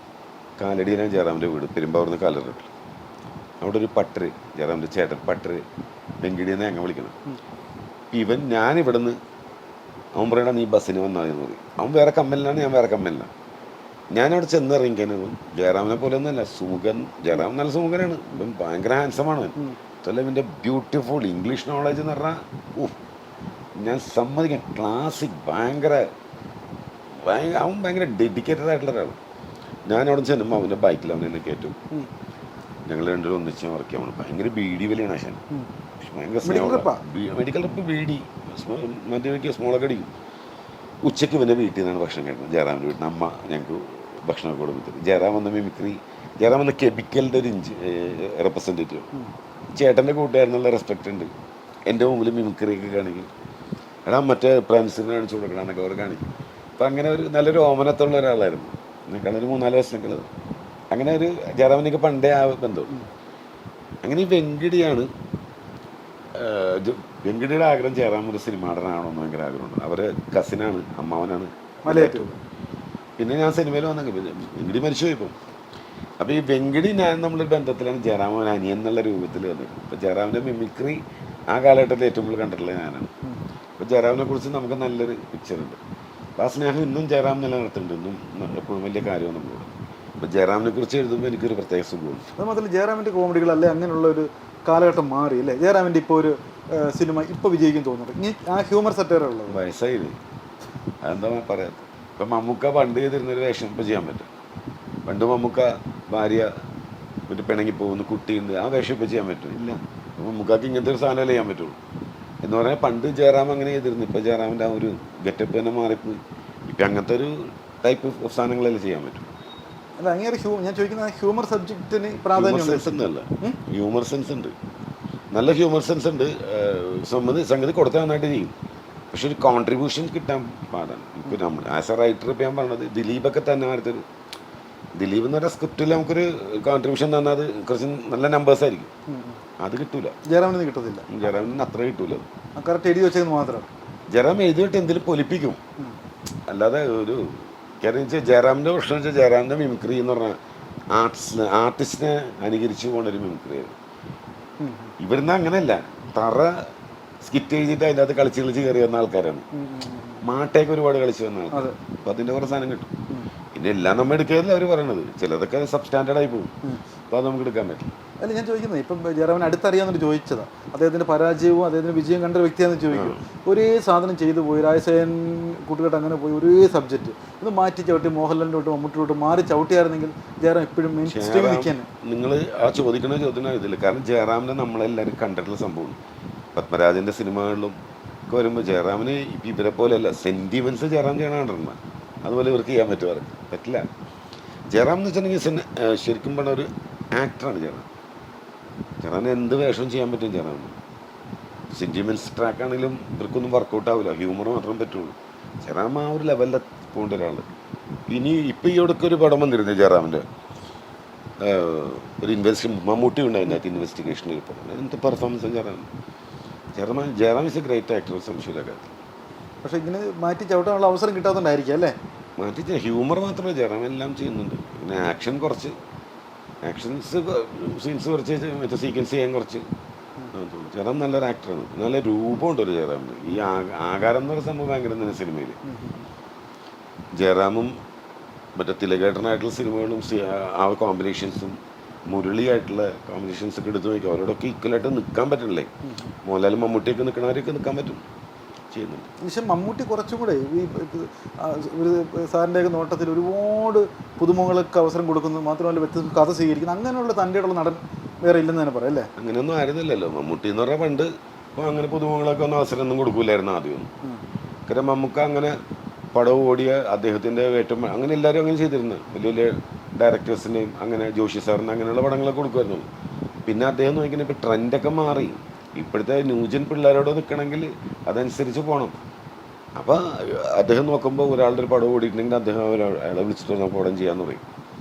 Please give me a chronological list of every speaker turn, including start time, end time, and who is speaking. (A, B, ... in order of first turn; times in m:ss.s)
0:00.6-0:02.7 A
0:03.6-0:05.6 A
0:06.2-0:07.2 A
0:08.1-0:09.2 A
0:10.1-0:13.3 A
0:14.1-0:23.0 A
0:23.8-0:26.1 A
0:27.2-0:29.2 A
0:29.9-0:31.8 A
0:32.9-0:35.4 A
0:36.0-0:40.1 A
0:36.4-0:37.0 B
0:41.0-0:49.1 A
0:49.8-0:51.3 A
0:51.9-0:53.3 A
0:54.0-0:56.3 A
0:56.8-1:00.3 A
1:00.9-1:03.0 A
1:04.0-1:05.1 A
1:06.3-1:12.2 A
1:11.8-1:12.4 B
1:13.2-1:15.3 A
1:16.2-1:23.1 A
1:23.8-1:25.8 A
1:26.4-1:32.2 A
1:32.4-1:39.6 B
1:39.5-1:40.2 A
1:41.0-1:44.3 A
1:45.0-1:46.5 A
1:47.3-1:51.8 A
1:52.4-1:59.3 A
2:00.0-2:03.6 B
2:02.3-2:04.5 A
2:05.3-2:08.5 A
2:09.1-2:14.0 A
2:15.0-2:18.9 A
2:19.1-2:19.4 B
2:19.6-2:20.2 A
2:20.2-2:21.1 B
2:21.1-2:22.3 A
2:22.6-2:23.7 B
2:24.1-2:25.6 A
2:26.5-2:30.4 A
2:30.9-2:33.8 A
2:34.6-2:34.9 B
2:35.0-2:36.7 A
2:37.2-2:39.4 A
2:39.5-2:40.2 B
2:40.2-2:42.9 A
2:43.5-2:46.5 A
2:47.1-2:47.9 A
2:48.2-3:01.9 B
2:52.9-2:53.2 A
3:01.0-3:06.0 A
3:06.5-3:07.8 A
3:08.3-3:13.9 A
3:14.7-3:17.8 A
3:19.0-3:20.8 A
3:21.7-3:27.4 A
3:28.1-3:30.2 A
3:31.4-3:35.9 A
3:36.7-3:38.9 A
3:39.6-3:42.0 B
3:42.4-3:45.8 A
3:46.6-3:49.6 A
3:50.3-3:55.6 A
3:55.6-3:56.1 B
3:57.1-3:57.7 A
3:58.6-4:01.6 A
4:02.1-4:05.7 A
4:05.8-4:06.1 B
4:06.2-4:08.0 A
4:08.7-4:09.1 A
4:09.2-4:19.1 B
4:19.2-4:23.9 A
4:24.7-4:25.5 A
4:26.1-4:32.8 A
4:33.4-4:39.0 A
4:39.8-4:44.4 A